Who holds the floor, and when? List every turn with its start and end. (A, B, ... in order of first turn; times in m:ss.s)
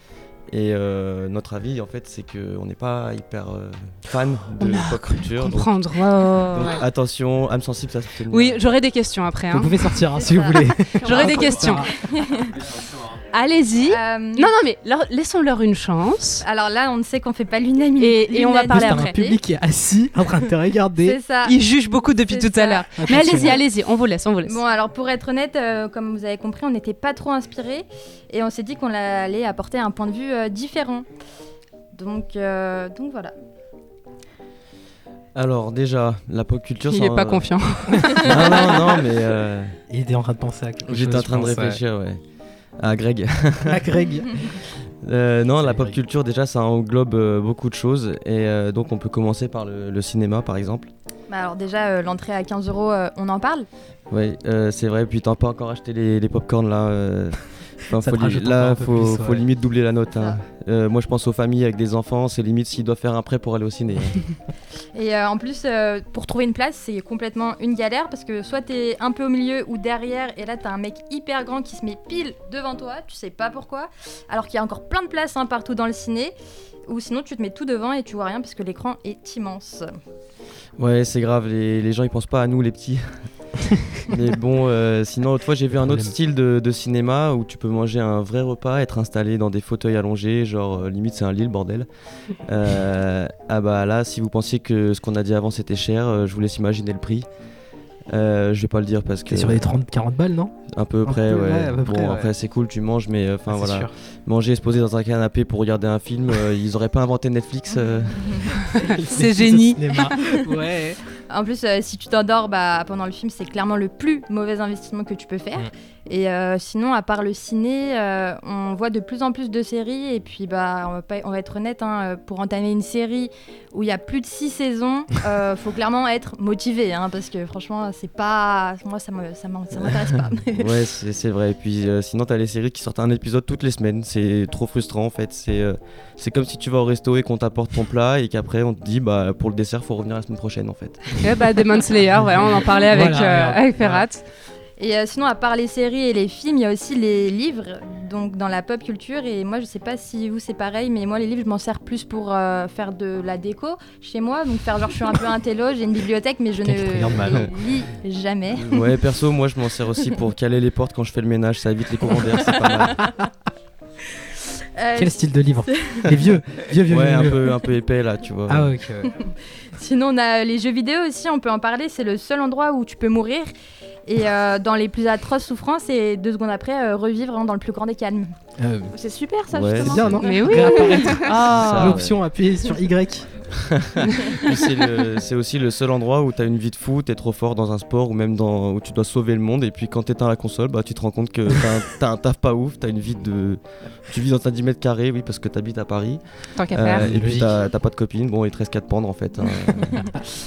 0:00.5-0:05.8 A
0:04.6-0:06.8 B
0:06.5-0:08.6 A
0:08.3-0:09.9 B
0:09.5-0:11.9 C
0:10.1-0:12.6 D
0:11.0-0:11.9 B
0:13.3-0:16.4 B
0:13.9-0:14.5 D
0:16.4-0:19.4 D
0:18.0-0:19.2 B
0:18.7-0:21.2 C
0:21.0-0:21.6 D
0:21.4-0:24.6 B
0:22.2-0:23.5 D
0:23.0-0:23.6 C
0:24.4-0:31.1 D
0:31.9-0:33.3 D
0:35.3-0:37.5 A
0:36.9-0:38.3 B
0:38.1-0:39.8 A
0:38.2-0:38.6 C
0:39.9-0:41.8 C
0:40.9-0:42.2 A
0:42.8-0:43.8 A
0:43.6-0:44.3 C
0:45.0-0:50.9 A
0:45.6-0:46.0 C
0:51.3-0:53.7 D
0:54.1-1:04.3 A
0:58.0-0:59.4 C
1:04.9-1:16.3 D
1:16.9-1:19.9 D
1:20.8-1:23.3 A
1:24.1-1:37.3 A
1:25.8-1:26.1 C
1:38.1-1:39.7 A
1:39.3-1:42.3 C
1:40.7-1:48.4 A
1:43.5-1:43.9 C
1:48.1-1:48.5 D
1:48.9-1:51.0 C
1:49.0-1:50.1 B
1:51.3-2:10.7 D
2:09.8-2:21.1 A
2:21.2-2:24.2 B
2:22.2-2:24.0 C
2:24.8-2:38.9 D
2:36.6-2:37.5 C
2:38.6-2:43.0 A
2:44.7-2:46.2 D
2:45.0-2:47.4 C
2:46.9-2:48.7 A
2:48.5-2:49.1 C
2:49.8-2:53.5 D
2:54.0-2:58.3 D
2:58.6-2:58.9 C
2:58.9-3:01.3 E
2:59.5-3:00.2 A
2:59.7-3:03.3 C
3:00.2-3:01.9 B
3:01.2-3:02.2 A
3:03.5-3:20.1 A
3:16.6-3:17.1 B
3:16.9-3:17.6 C